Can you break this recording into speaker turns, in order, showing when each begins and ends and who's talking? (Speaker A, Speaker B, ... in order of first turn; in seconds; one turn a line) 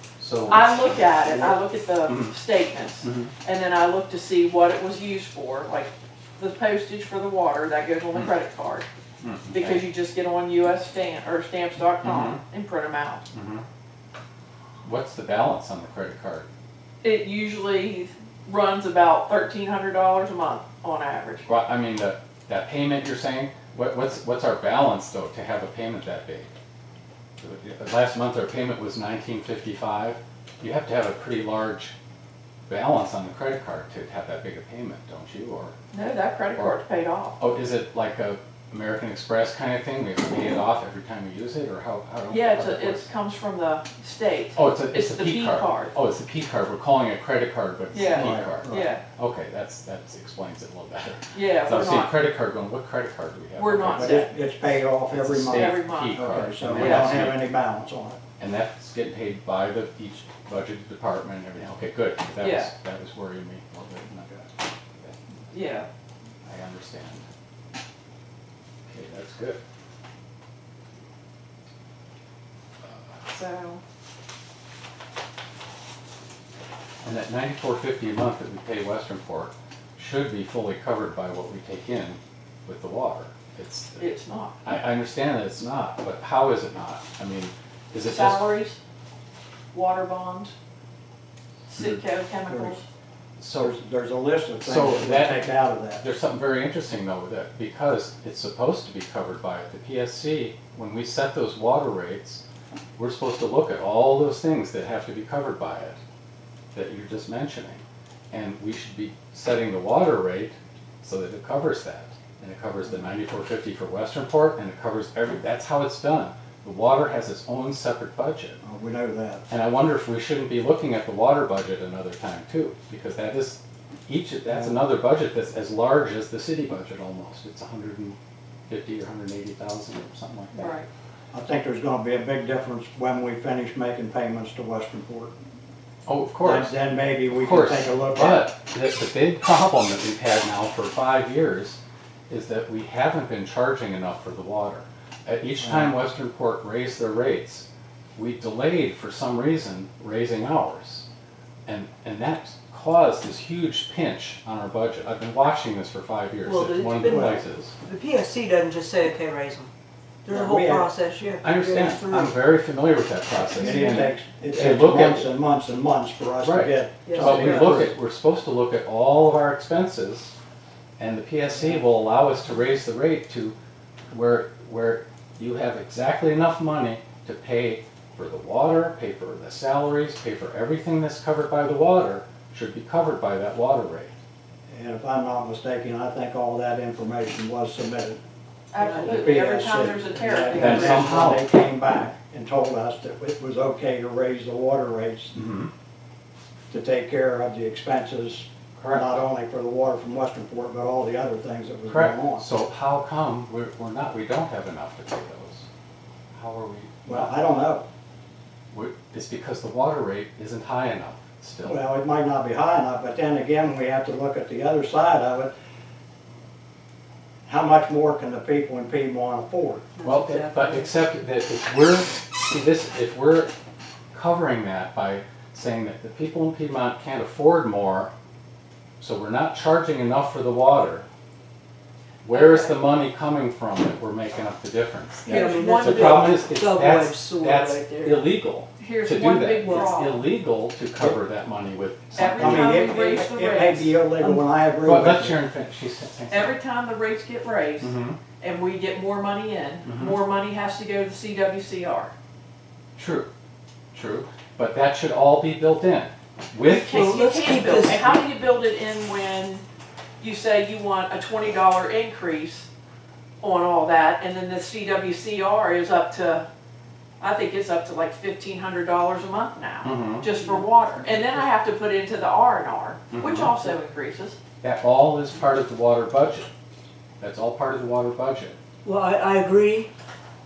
Speaker A: 0.2-1.1
Speaker B: 0.5-8.8
Speaker A: 2.0-2.4
Speaker A: 3.0-3.3
Speaker A: 9.2-9.9
Speaker B: 9.5-13.2
Speaker A: 12.0-12.4
Speaker A: 13.3-13.6
Speaker A: 14.8-16.5
Speaker B: 17.0-21.5
Speaker A: 21.4-26.5
Speaker A: 27.4-31.9
Speaker A: 32.7-35.8
Speaker B: 35.9-37.4
Speaker A: 37.4-43.1
Speaker B: 42.3-45.9
Speaker A: 44.5-54.3
Speaker B: 47.9-49.0
Speaker C: 48.1-48.9
Speaker B: 51.3-52.1
Speaker B: 53.5-54.3
Speaker C: 53.9-58.2
Speaker A: 55.0-57.4
Speaker B: 55.5-56.2
Speaker B: 56.7-57.2
Speaker A: 58.4-65.2
Speaker B: 62.4-62.7
Speaker B: 65.5-65.9
Speaker A: 66.4-67.2
Speaker A: 68.9-69.6
Speaker A: 72.8-73.2
Speaker B: 73.2-73.8
Speaker A: 77.0-84.1
Speaker B: 84.0-84.6
Speaker A: 84.6-88.4
Speaker B: 88.0-88.8
Speaker B: 89.7-90.5
Speaker B: 91.7-92.8
Speaker A: 91.8-92.0
Speaker C: 92.5-92.7
Speaker A: 93.4-93.7
Speaker C: 93.5-96.0
Speaker A: 94.6-102.4
Speaker A: 103.0-106.0
Speaker A: 106.7-118.6
Speaker C: 118.6-119.4
Speaker A: 119.5-128.2
Speaker C: 124.5-124.8
Speaker A: 128.7-130.8
Speaker B: 130.5-130.9
Speaker C: 131.3-135.3
Speaker A: 136.1-136.8
Speaker C: 136.4-138.5
Speaker A: 137.3-151.1
Speaker C: 145.6-145.9
Speaker A: 151.7-157.7
Speaker D: 156.4-159.7
Speaker C: 157.1-157.4
Speaker D: 160.2-162.4
Speaker C: 160.3-160.9
Speaker A: 161.4-165.3
Speaker C: 163.5-167.9
Speaker D: 163.6-164.1
Speaker A: 166.4-170.3
Speaker D: 167.1-167.9
Speaker A: 171.0-173.6
Speaker A: 174.1-184.1
Speaker C: 184.7-188.2
Speaker B: 188.7-191.1
Speaker D: 188.8-189.4
Speaker C: 189.0-195.3
Speaker A: 190.6-191.5
Speaker A: 195.3-195.7
Speaker C: 196.7-202.4
Speaker A: 198.8-199.2
Speaker A: 201.9-205.7
Speaker A: 206.3-207.3
Speaker C: 207.1-207.8
Speaker A: 208.7-211.8
Speaker C: 211.6-215.5
Speaker C: 217.4-219.8
Speaker D: 219.9-220.9
Speaker A: 220.0-223.5
Speaker A: 224.1-228.1
Speaker A: 229.0-231.1
Speaker A: 232.2-242.8
Speaker B: 232.3-232.9
Speaker B: 235.2-236.4
Speaker D: 235.2-238.3
Speaker B: 238.8-240.2
Speaker B: 242.1-244.0
Speaker C: 242.2-245.3
Speaker A: 244.8-246.6
Speaker B: 246.3-252.1
Speaker A: 247.8-248.2
Speaker A: 249.8-250.2
Speaker A: 252.9-253.3
Speaker A: 253.9-257.0
Speaker B: 256.7-259.6
Speaker D: 256.7-258.2
Speaker B: 260.2-262.7
Speaker B: 263.4-266.4
Speaker B: 267.2-274.4
Speaker A: 269.8-270.3
Speaker A: 273.1-273.5
Speaker A: 274.6-276.5
Speaker A: 277.2-278.6
Speaker D: 278.8-279.9